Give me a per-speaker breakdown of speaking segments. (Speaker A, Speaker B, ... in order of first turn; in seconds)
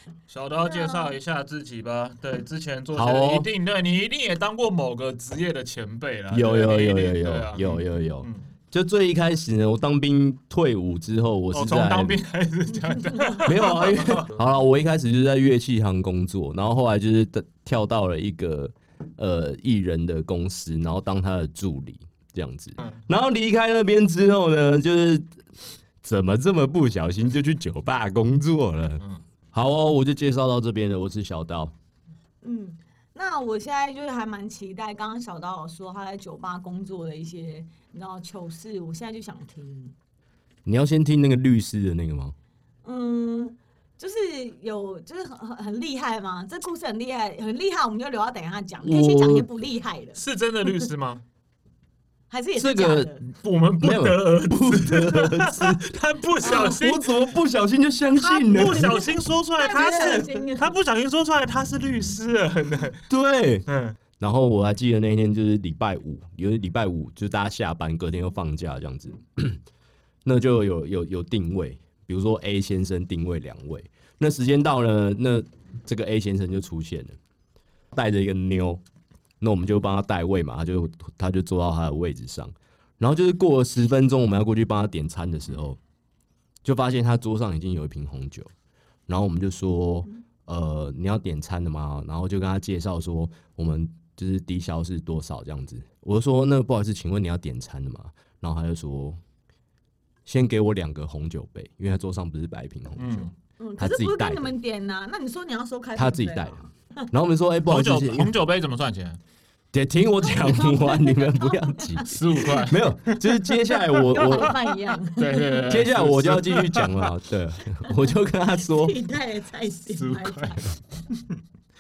Speaker A: 0.3-8.4, 11.5-14.3, 50.2-51.2, 53.4-57.1, 58.2-63.0, 63.7-64.0, 103.0-103.3, 107.7-109.2, 112.1-113.4, 114.0-114.5, 115.2-117.1, 119.9-121.3
Speaker B: 0.6-1.2, 32.4-39.9, 42.8-50.8, 52.3-53.2, 56.4-56.8, 59.6-60.8, 103.6-107.1, 110.3-112.1, 114.1-115.6, 118.7-120.6
Speaker C: 3.0-3.5, 6.3-12.2, 13.4-25.2, 26.0-29.0, 29.5-31.7, 40.7-42.3, 48.8-49.5, 52.6-53.3, 53.8-55.9, 56.4-59.1, 63.1-63.6, 64.2-69.6, 70.2-77.2, 77.9-78.8, 79.4-85.8, 86.6-88.5, 89.1-99.2, 100.3-104.5, 106.0-106.6, 107.1-108.4, 109.7-114.6, 115.6-119.0